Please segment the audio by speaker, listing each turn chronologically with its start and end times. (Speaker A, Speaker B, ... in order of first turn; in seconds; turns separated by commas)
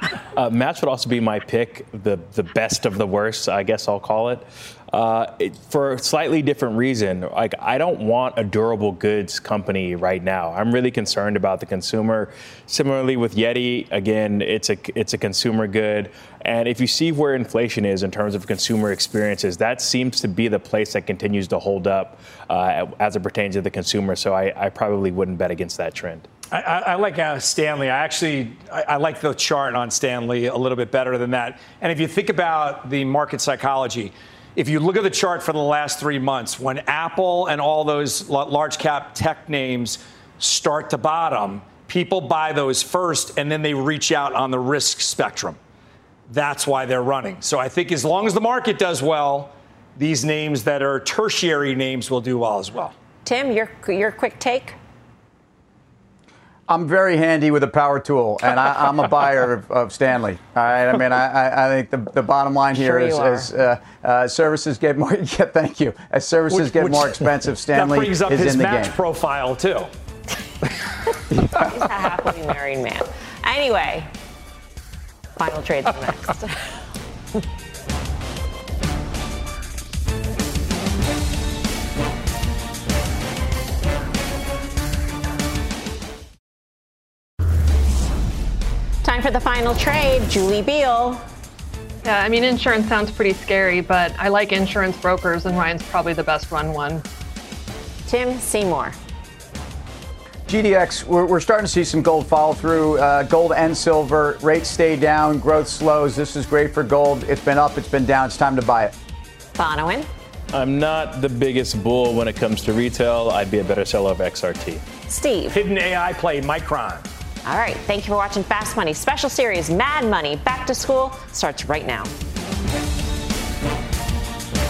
Speaker A: 0.3-26.3, Speaker B: 26.5-45.6, Speaker B: 46.3-52.9, Speaker C: 53.2-54.7, Speaker D: 56.7-68.9, Speaker C: 62.7-63.5, Speaker B: 66.5-69.9, Speaker C: 71.5-74.1, Speaker C: 75.3-76.6, Speaker C: 89.0-91.2, Speaker E: 92.0-97.0, Speaker C: 98.0-99.0, Speaker D: 100.5-108.9, Speaker C: 109.6-110.1, Speaker A: 110.5-114.8, Speaker C: 115.1-115.6, Speaker B: 115.5-117.0, Speaker C: 117.4-122.1